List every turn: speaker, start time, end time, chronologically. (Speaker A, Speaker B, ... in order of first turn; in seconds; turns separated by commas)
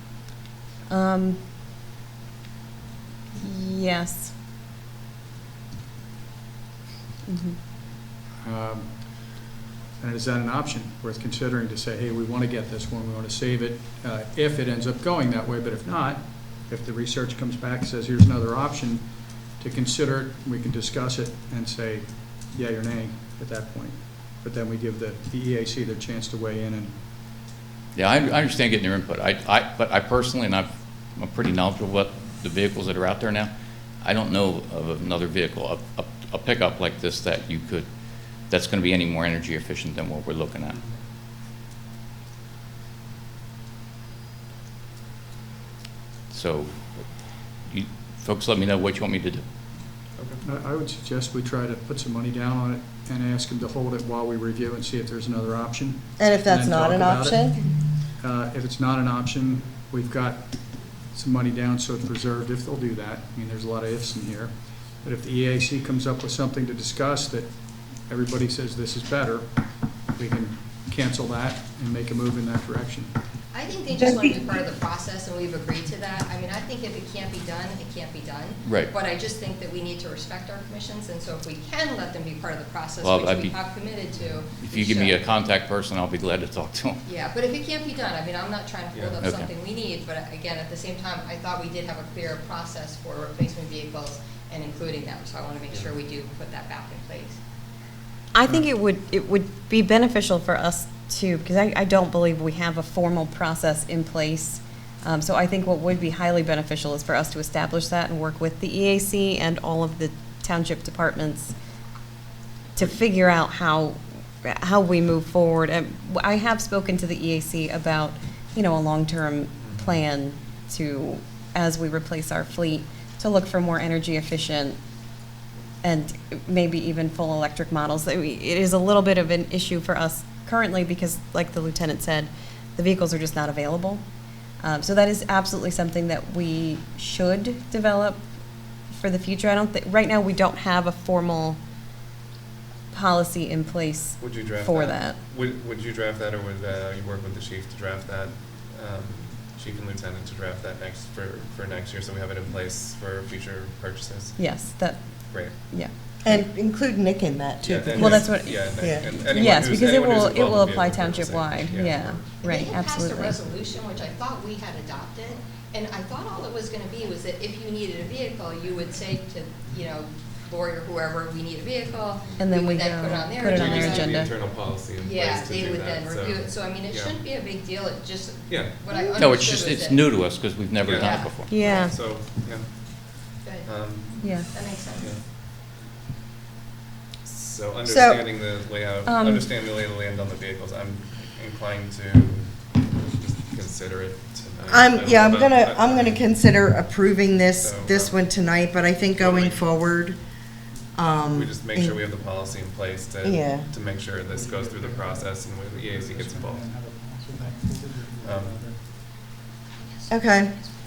Speaker A: 0.9-1.4, Speaker A: 3.4-4.3, Speaker A: 7.3-7.6, Speaker B: 8.4-27.0, Speaker C: 27.9-37.9, Speaker C: 38.5-40.8, Speaker C: 46.3-49.4, Speaker D: 50.2-50.4, Speaker B: 50.4-73.1, Speaker E: 56.2-57.7, Speaker F: 73.5-85.2, Speaker E: 74.0-74.3, Speaker C: 78.6-78.9, Speaker C: 83.0-83.6, Speaker C: 84.6-87.0, Speaker F: 87.0-97.4, Speaker D: 88.9-89.2, Speaker C: 89.2-89.5, Speaker A: 98.3-111.5, Speaker A: 112.8-124.8, Speaker D: 119.6-120.0, Speaker A: 125.8-134.0, Speaker A: 134.6-138.2, Speaker A: 138.9-141.6, Speaker A: 142.9-145.2, Speaker D: 144.2-155.8, Speaker A: 154.4-156.5, Speaker E: 156.2-159.2, Speaker D: 157.6-162.4, Speaker A: 157.9-163.4, Speaker F: 162.4-174.3, Speaker A: 172.4-174.3, Speaker D: 173.4-177.2, Speaker F: 175.0-180.1, Speaker D: 178.5-178.8, Speaker C: 179.2-181.5, Speaker D: 180.8-185.2, Speaker F: 180.9-181.9, Speaker A: 181.5-182.0, Speaker F: 183.4-185.1, Speaker A: 184.2-184.5, Speaker D: 187.2-196.4, Speaker E: 187.9-188.3, Speaker A: 189.1-189.5, Speaker E: 194.7-200.2, Speaker D: 197.6-198.2, Speaker D: 199.1-199.7, Speaker E: 200.9-202.0, Speaker D: 201.3-206.7, Speaker E: 203.2-203.7, Speaker B: 204.1-209.0, Speaker D: 208.2-208.6, Speaker E: 210.1-210.6